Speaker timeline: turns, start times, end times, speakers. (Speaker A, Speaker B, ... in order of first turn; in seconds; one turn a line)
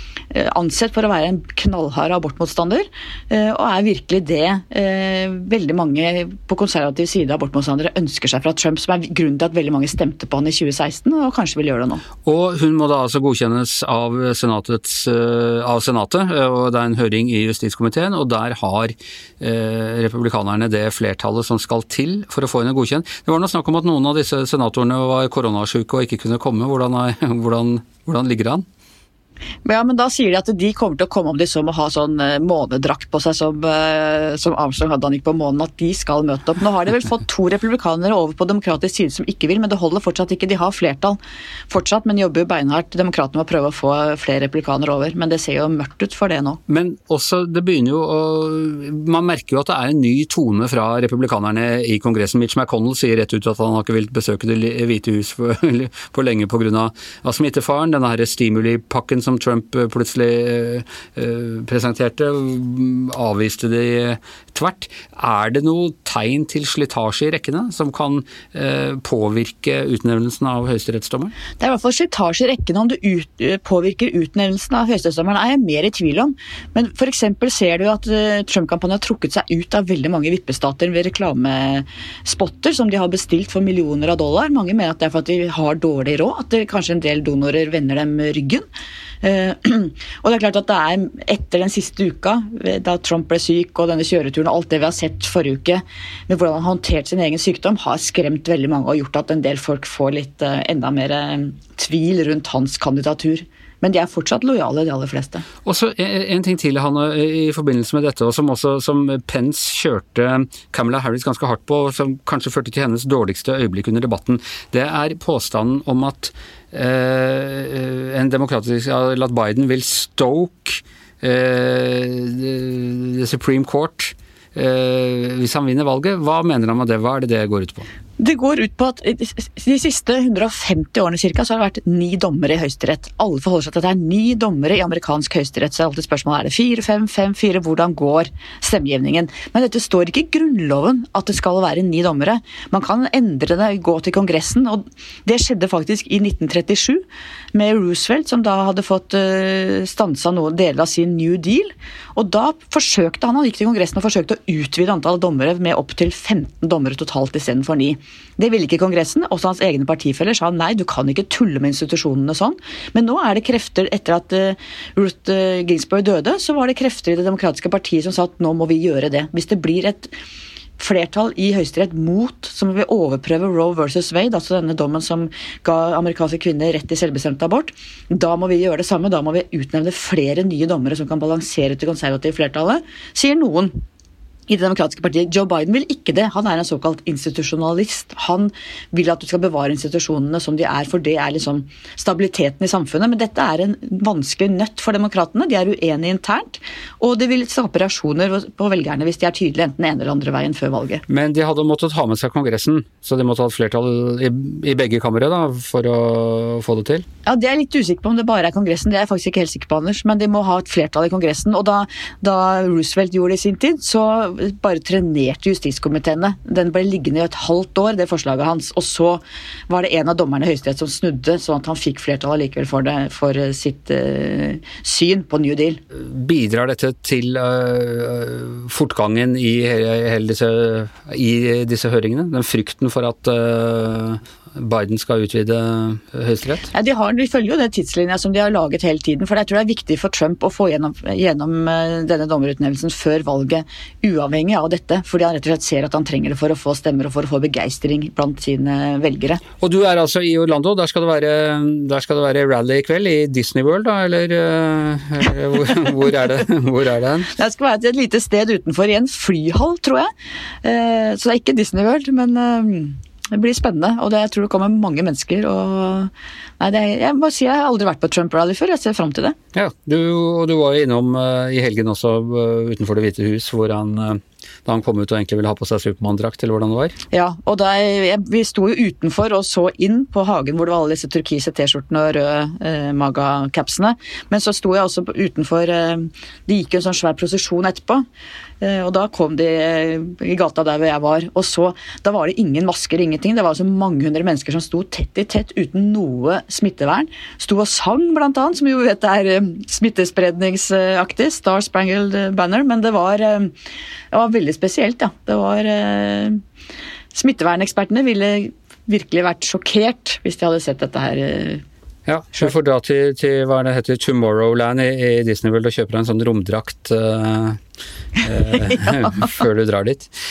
Speaker A: 0.3-12.0
Speaker B: 12.2-28.6
Speaker A: 29.6-41.2
Speaker A: 41.7-46.6
Speaker B: 46.7-71.3
Speaker A: 71.6-88.7
Speaker A: 89.2-105.4
Speaker B: 105.7-127.9
Speaker A: 128.2-170.2
Speaker A: 170.8-183.8
Speaker A: 184.5-201.0
Speaker B: 201.1-207.1
Speaker A: 207.2-225.8
Speaker B: 225.9-236.7
Speaker A: 236.7-249.4
Speaker B: 249.6-257.3
Speaker A: 257.4-260.1
Speaker A: 260.6-269.4
Speaker B: 269.5-277.0
Speaker A: 277.1-288.0
Speaker A: 288.6-303.5
Speaker A: 304.1-306.4
Speaker A: 307.1-311.6
Speaker B: 312.1-317.6
Speaker B: 318.2-320.1
Speaker A: 318.7-319.3